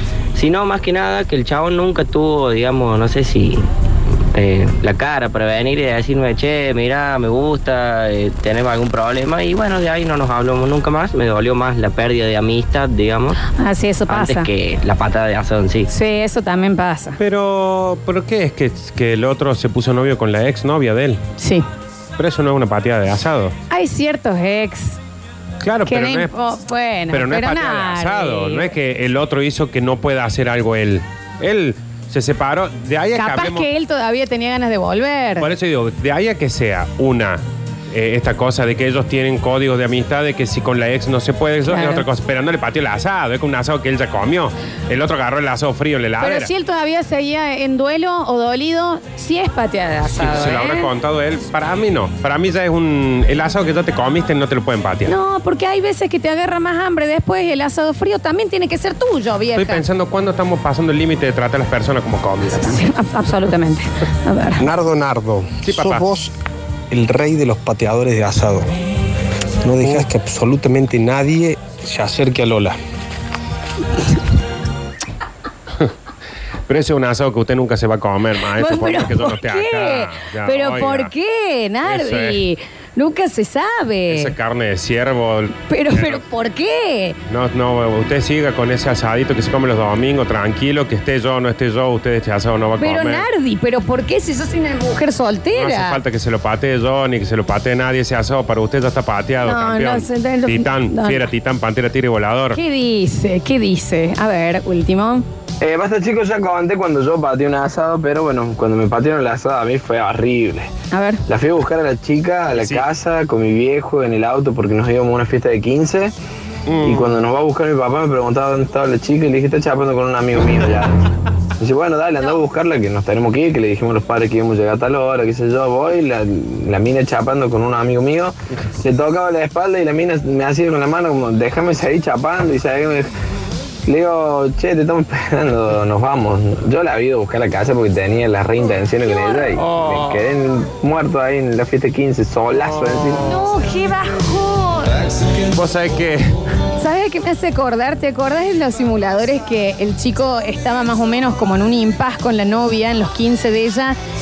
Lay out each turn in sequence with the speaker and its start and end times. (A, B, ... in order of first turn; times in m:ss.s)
0:00.3-0:03.7 A
0:04.3-0:13.4 A
0:13.6-0:14.5 B
0:14.1-0:15.9 A
0:15.9-0:17.2 B
0:17.2-0:21.2 C
0:21.4-0:21.6 B
0:22.2-0:23.5 C
0:23.7-0:25.0 B
0:25.6-0:26.3 C
0:25.8-0:28.7 B
0:27.1-0:33.7 C
0:33.2-0:35.5 B
0:35.4-0:46.5 C
0:41.6-0:42.0 B
0:46.2-0:50.9 B
0:50.1-0:55.1 C
0:55.1-0:59.8 B
0:59.6-1:02.8 C
1:02.6-1:04.6 B
1:04.6-1:06.3 D
1:05.6-1:06.1 C
1:06.9-1:08.7 D
1:09.6-1:12.8 D
1:09.8-1:10.1 C
1:16.7-1:21.1 C
1:18.6-1:24.3 B
1:21.8-1:22.4 C
1:24.1-1:26.2 C
1:25.7-1:27.2 B
1:27.3-1:33.2 C
1:32.8-1:36.0 B
1:35.5-1:42.6 C
1:39.4-1:41.3 B
1:42.5-1:45.2 B
1:45.6-1:50.7 E
1:50.9-1:51.2 B
1:51.3-1:56.1 E
1:52.5-1:52.8 C
1:56.7-1:57.1 C
1:56.8-2:01.0 E
2:01.6-2:13.1 E
2:13.8-2:23.2 E
2:19.0-2:19.6 B
2:19.7-2:20.0 C
2:23.2-2:24.9 B
2:25.5-2:26.3 C
2:26.8-2:34.0 B